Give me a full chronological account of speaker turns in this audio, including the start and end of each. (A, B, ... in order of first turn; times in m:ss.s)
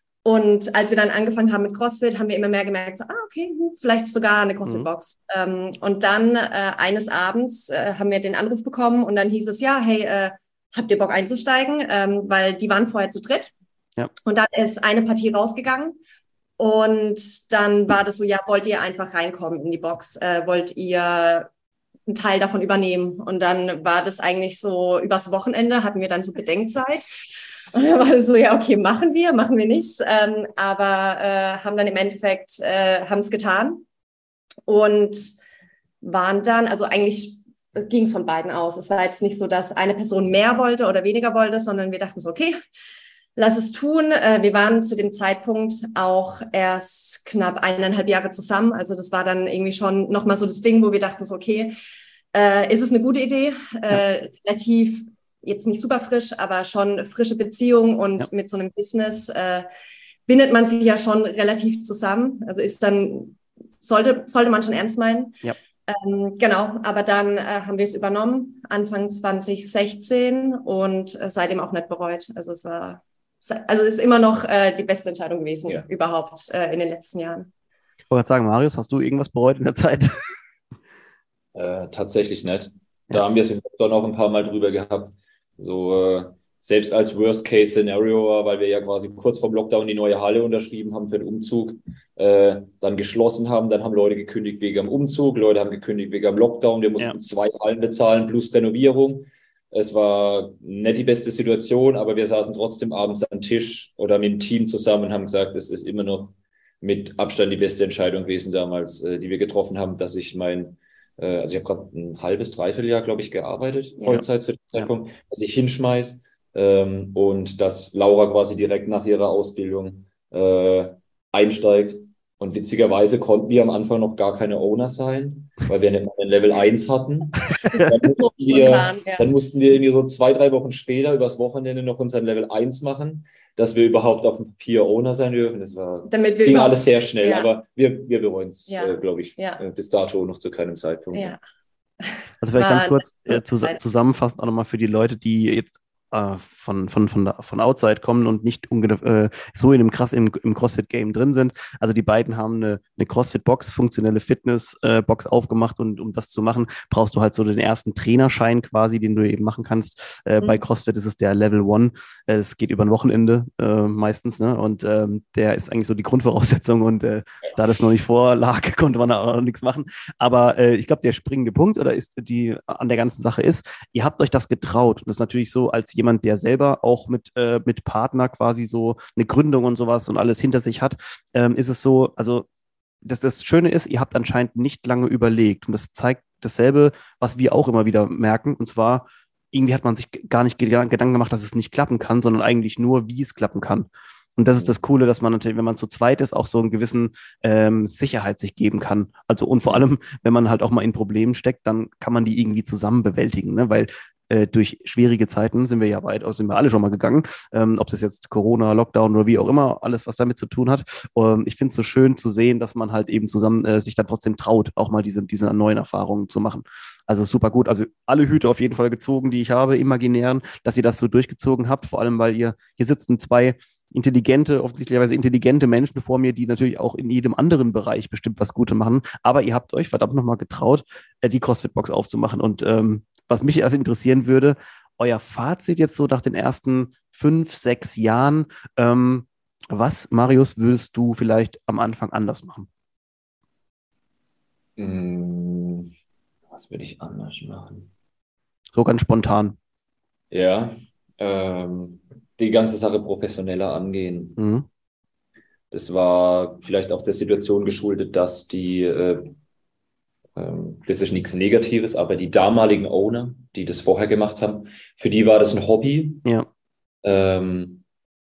0:00.2-0:13.5 A
0:14.2-0:16.0 A
0:16.6-0:21.5 A
0:22.1-0:27.1 A
0:27.7-0:33.8 A
0:34.7-0:35.4 A
0:36.0-0:42.6 A
0:43.4-0:51.7 A
0:52.3-0:59.7 A
1:00.3-1:17.5 A
1:18.1-1:20.2 B
1:21.5-2:21.4 C
2:07.6-2:09.3 A
2:16.1-2:17.5 A
2:18.7-2:19.6 A
2:22.0-2:23.8 A
2:22.4-3:02.4 B
3:03.0-4:02.7 B
4:04.8-4:05.9 C
4:06.5-4:07.9 C
4:08.7-4:09.6 B
4:10.3-4:14.4 C
4:14.4-4:14.6 B
4:15.7-4:19.3 C
4:20.4-4:26.2 C
4:27.0-4:27.8 C